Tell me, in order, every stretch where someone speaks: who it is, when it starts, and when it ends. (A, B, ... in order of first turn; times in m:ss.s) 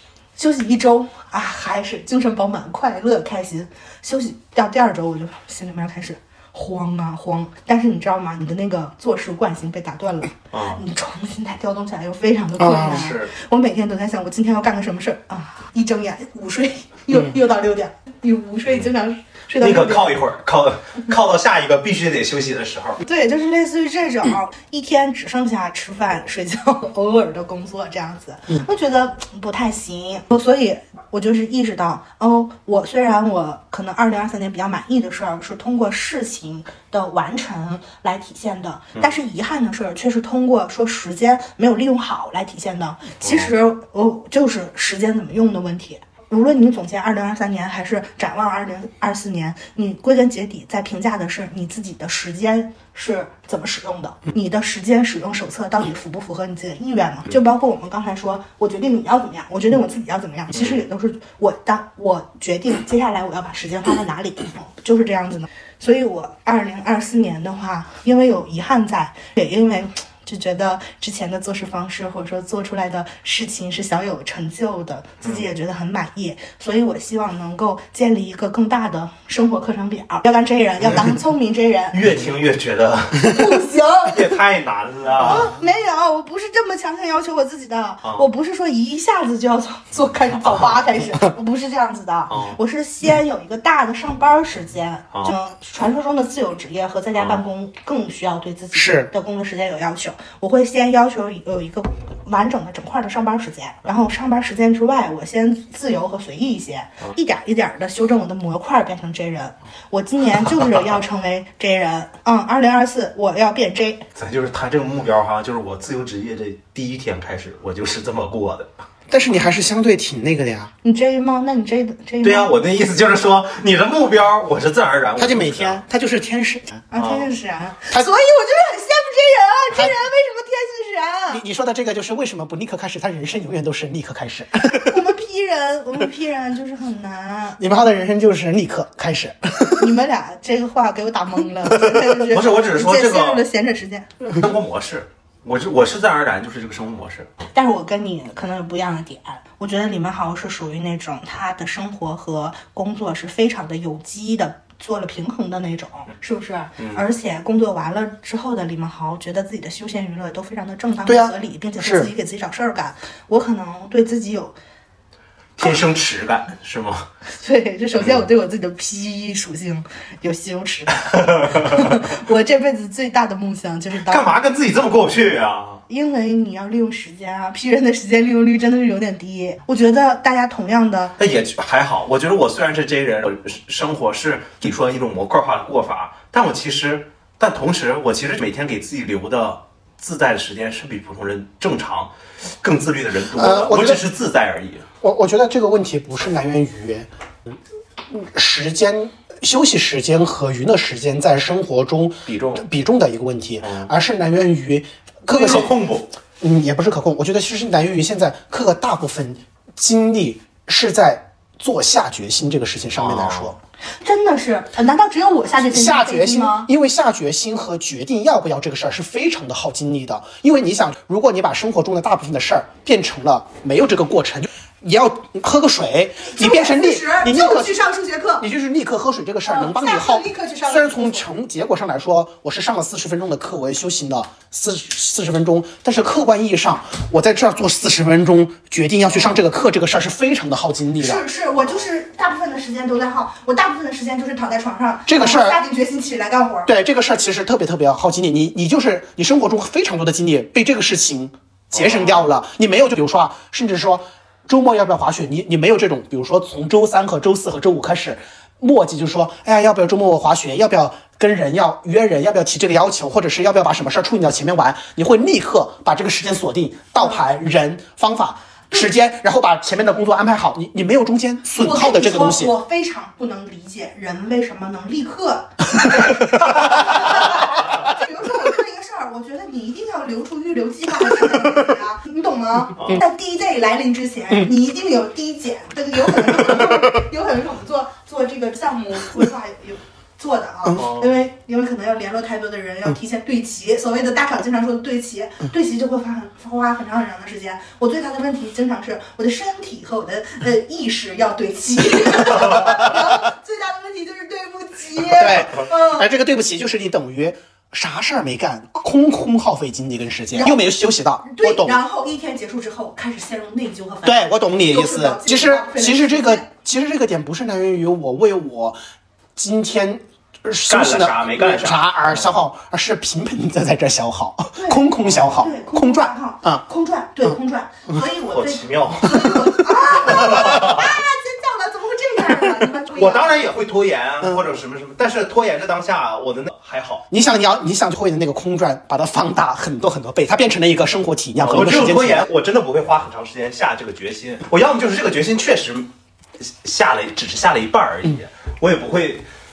0:00.4-0:20.2 A
0:10.5-0:10.8 B
0:12.6-0:12.9 C
0:12.7-0:13.3 B
0:19.6-0:23.0 B
0:23.0-1:22.0 A
0:43.2-0:43.5 B
1:00.5-1:00.8 B
1:21.9-1:23.5 B
1:23.2-1:24.3 A
1:24.0-1:25.5 B
1:25.2-1:54.1 A
1:32.3-1:32.6 B
1:38.7-1:39.1 C
1:54.2-1:58.7 B
1:59.1-2:00.7 C
2:00.8-2:02.5 A
2:02.2-2:05.8 B
2:05.2-2:06.8 C
2:06.9-2:11.4 A
2:07.0-2:07.3 B
2:11.3-2:15.0 C
2:14.8-2:17.6 A
2:17.6-2:19.9 C
2:19.8-2:24.1 A
2:22.0-2:23.4 B
2:24.3-2:27.3 B
2:27.5-2:44.6 A
2:41.1-2:42.1 C
2:45.6-2:47.1 B
2:47.3-2:54.3 A
2:51.2-2:51.6 B
2:54.1-2:55.8 B
2:55.9-3:01.2 A
3:01.2-3:14.9 B
3:13.4-3:14.1 C
3:15.0-3:17.5 C
3:18.1-3:25.8 C
3:22.3-3:22.6 B
3:23.6-3:23.9 B
3:25.3-3:26.1 B
3:26.4-3:33.6 C
3:33.0-3:33.5 B
3:34.0-3:36.7 A
3:35.6-3:47.8 C
3:46.2-3:48.5 A
3:48.4-4:01.2 C
3:49.5-3:51.3 A
4:01.0-4:06.7 A
4:05.1-4:05.6 C
4:06.7-4:32.5 C
4:11.7-4:12.3 B
4:31.6-5:06.1 A
4:50.8-4:51.1 B
5:05.1-5:11.8 C
5:10.3-5:10.7 A
5:11.2-5:16.5 A
5:14.0-5:18.8 C
5:19.4-5:26.6 C
5:20.7-5:22.3 B
5:24.6-5:33.4 A
5:28.3-5:29.5 B
5:30.1-5:30.7 B
5:32.9-5:37.1 B
5:37.1-5:42.3 C
5:41.4-5:45.9 B
5:46.4-5:49.3 B